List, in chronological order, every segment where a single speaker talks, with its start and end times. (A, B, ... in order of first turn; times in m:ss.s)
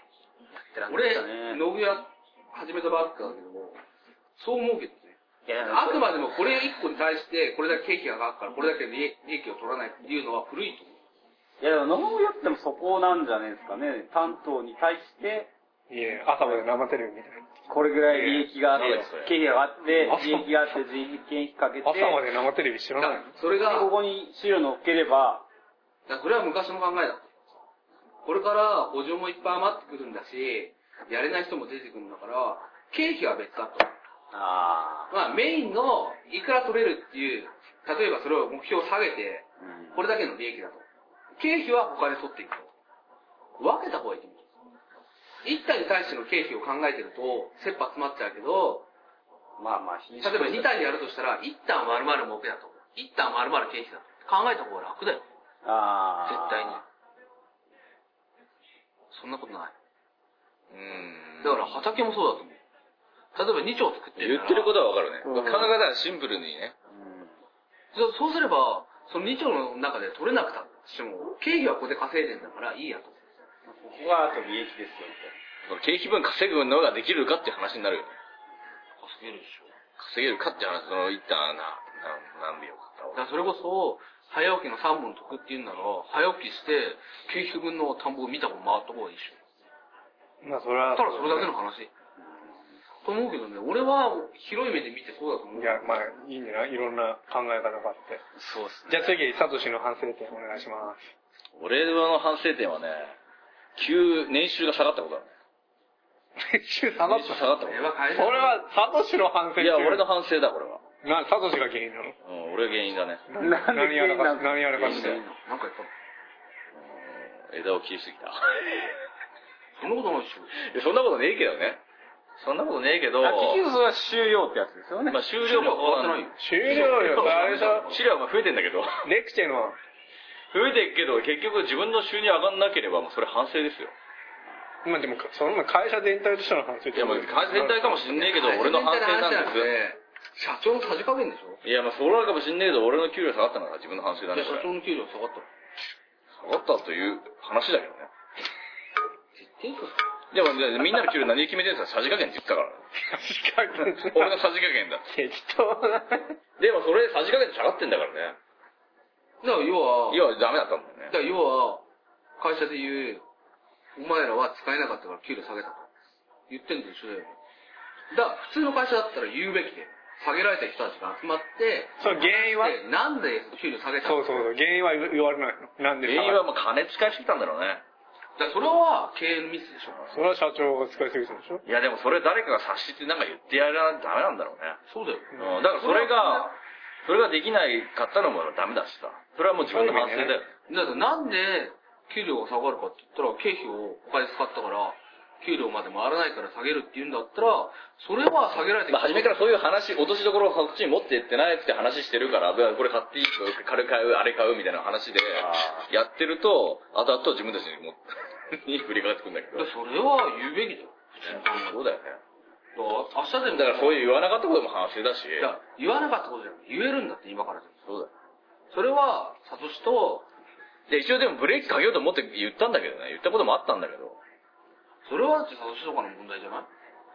0:00.5-0:01.6 A
0:00.9-0:03.8 B
0:04.4-0:10.9 B
0:05.5-0:06.2 A
0:11.6-0:15.5 A
0:15.9-0:17.6 C
0:17.7-0:22.2 A
0:18.1-0:18.5 C
0:18.7-0:19.3 D
0:20.0-0:20.8 C
0:21.8-0:23.3 C
0:23.0-0:23.9 B
0:23.6-0:25.5 A
0:26.1-0:27.3 B
0:28.2-0:33.9 B
0:34.3-0:35.1 A
0:35.1-0:40.8 B
0:39.6-0:40.0 A
0:41.4-0:42.7 B
0:43.6-0:44.4 B
0:45.4-0:48.9 B
0:49.6-0:51.0 A
0:50.2-0:55.2 B
0:55.6-0:56.8 A
0:56.2-0:56.8 B
0:59.1-0:59.8 B
1:00.7-1:01.7 D
1:01.4-1:02.6 B
1:03.4-1:04.8 B
1:04.2-1:06.8 D
1:05.2-1:05.8 A
1:06.9-1:07.3 A
1:07.9-1:13.2 B
1:13.7-1:15.3 A
1:15.7-1:18.2 D
1:19.0-1:19.7 B
1:20.0-1:23.2 D
1:23.1-1:29.4 B
1:30.4-1:31.5 C
1:30.9-1:31.9 B
1:33.0-1:35.9 B
1:35.6-1:38.2 C
1:38.4-1:39.2 A
1:38.9-1:41.1 C
1:41.6-1:43.2 D
1:43.8-1:45.3 D
1:46.4-1:47.6 C
1:47.0-1:47.8 D
1:47.6-1:48.6 B
1:48.2-1:50.1 C
1:49.6-1:50.8 D
1:51.0-1:52.2 C
1:52.2-1:53.2 D
1:53.3-1:55.2 C
1:53.4-1:55.3 A
1:54.8-1:55.9 B
1:56.8-1:58.8 D
1:59.8-2:00.5 B
2:00.6-2:01.8 D
2:02.4-2:03.6 D
2:03.2-2:05.2 A
2:05.1-2:09.0 D
2:05.4-2:07.7 B
2:06.4-2:08.0 C
2:09.0-2:09.8 C
2:10.5-2:13.9 D
2:14.8-2:18.0 C
2:16.9-2:19.7 D
2:17.9-2:21.6 B
2:21.6-2:24.7 D
2:24.3-2:25.5 B
2:26.4-2:28.1 D
2:29.4-2:30.0 B
2:30.3-2:32.8 D
2:33.0-2:34.4 C
2:33.9-2:35.0 D
2:35.1-2:36.4 C
2:36.6-2:38.4 D
2:39.4-2:40.3 B
2:40.1-2:41.1 D
2:41.1-2:41.8 B
2:42.4-2:43.2 B
2:44.0-2:45.9 B
2:46.5-2:47.3 B
2:48.1-2:54.4 B
2:52.0-2:52.8 C
2:54.0-2:56.4 C
2:56.0-2:57.8 D
2:58.4-3:00.0 B
3:00.1-3:01.6 C
3:01.6-3:04.8 D
3:04.9-3:06.5 B
3:05.4-3:10.5 D
3:09.6-3:10.4 C
3:10.7-3:19.4 B
3:18.9-3:29.7 D
3:25.3-3:25.9 A
3:29.6-3:31.8 B
3:31.3-3:32.2 D
3:32.8-3:34.0 B
3:33.5-3:35.5 D
3:35.4-3:37.7 B
3:38.7-3:40.3 B
3:40.9-3:44.2 D
3:45.1-3:46.7 B